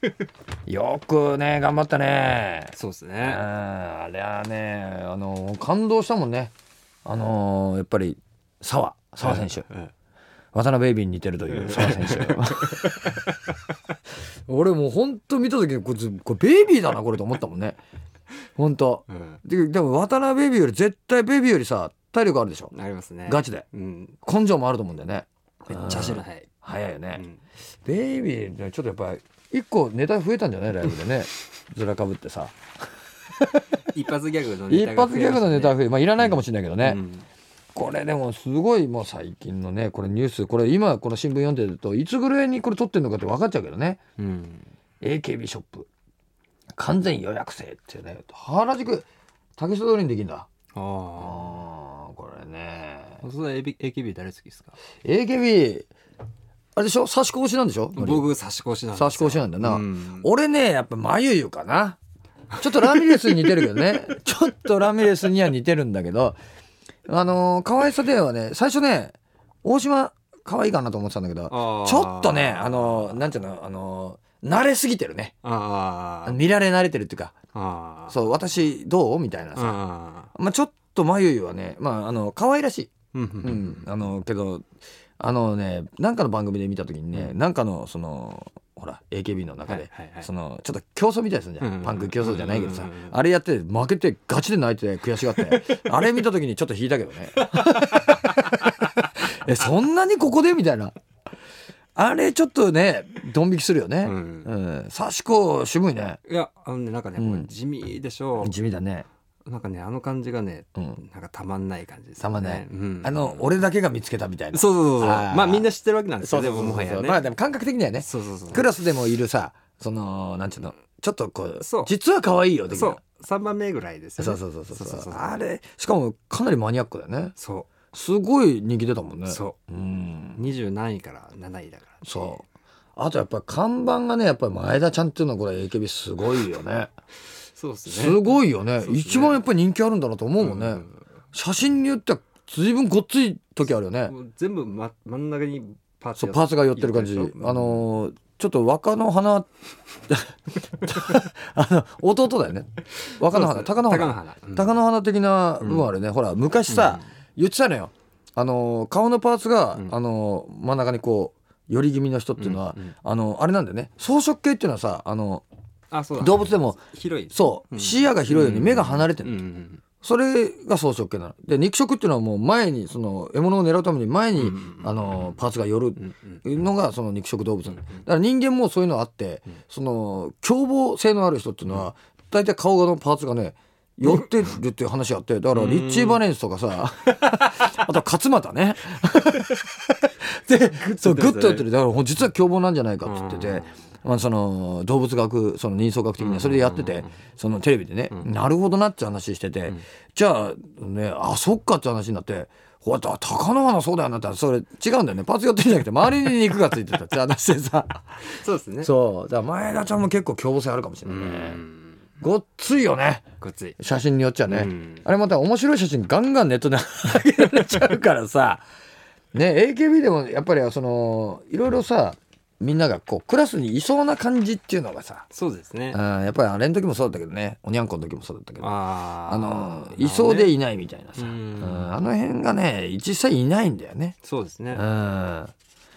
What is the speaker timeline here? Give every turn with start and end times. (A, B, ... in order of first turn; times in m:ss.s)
0:00.7-0:06.5 A
0:02.7-0:03.4 B
0:07.0-0:09.7 A
0:09.2-0:09.9 B
0:10.5-0:13.0 A
0:11.5-0:13.5 B
0:14.5-0:17.8 A
0:18.6-0:22.7 A
0:19.1-0:19.4 B
0:22.7-0:24.2 B
0:23.2-0:23.6 A
0:24.2-0:27.2 A
0:25.6-0:26.5 B
0:27.1-0:27.4 B
0:27.8-0:32.6 A
0:33.8-0:37.2 B
0:34.7-0:37.0 A
0:37.7-0:44.0 A
0:44.2-0:44.7 B
0:45.0-0:45.9 A
0:46.8-0:50.5 A
0:50.7-0:51.6 B
0:51.2-0:53.2 A
0:53.2-0:54.8 B
0:55.0-0:55.9 A
0:56.8-0:58.3 A
0:58.0-1:00.3 B
0:58.9-1:02.0 A
1:02.6-1:06.4 A
1:07.1-1:15.3 A
1:11.5-1:13.3 B
1:15.4-1:16.4 B
1:16.2-1:17.3 A
1:17.5-1:18.2 B
1:18.1-1:19.8 A
1:19.6-1:20.3 B
1:20.3-1:24.6 A
1:23.1-1:23.9 B
1:25.2-1:38.7 A
1:29.6-1:30.3 B
1:31.6-1:33.2 B
1:37.5-1:38.7 B
1:39.2-1:40.9 A
1:42.0-1:46.2 A
1:44.0-1:44.5 B
1:46.2-1:48.5 B
1:47.2-1:47.5 A
1:48.4-1:49.1 A
1:49.4-1:53.6 B
1:50.8-1:51.0 A
1:52.2-2:03.0 A
1:54.5-1:57.3 B
1:58.0-1:58.7 B
2:01.6-2:01.9 B
2:02.7-2:05.4 B
2:04.2-2:07.3 A
2:07.4-2:07.7 B
2:07.9-2:10.4 A
2:09.2-2:09.6 B
2:10.3-2:12.4 B
2:12.0-2:12.4 A
2:13.0-2:16.9 A
2:17.5-2:19.4 B
2:17.8-2:24.1 A
2:20.4-2:21.0 B
2:24.0-2:27.8 B
2:26.2-2:29.5 A
2:30.1-2:45.4 A
2:33.0-2:34.8 B
2:35.6-2:35.9 B
2:36.7-2:37.0 B
2:42.4-2:42.9 B
2:45.9-2:49.8 B
2:46.2-2:49.4 A
2:50.0-3:31.6 A
2:54.4-2:55.2 B
2:56.1-2:56.3 B
3:05.5-3:06.2 B
3:11.0-3:11.7 B
3:13.0-3:13.8 B
3:16.2-3:17.2 B
3:28.2-3:28.9 B
3:31.0-3:32.0 B
3:32.2-3:33.2 A
3:33.4-3:33.8 B
3:33.8-3:38.6 A
3:34.4-3:35.0 B
3:39.3-3:45.3 A
3:45.3-3:46.0 B
3:45.9-3:54.2 A
3:48.6-3:50.6 B
3:51.2-3:52.0 B
3:54.2-3:54.8 B
3:54.7-3:55.5 A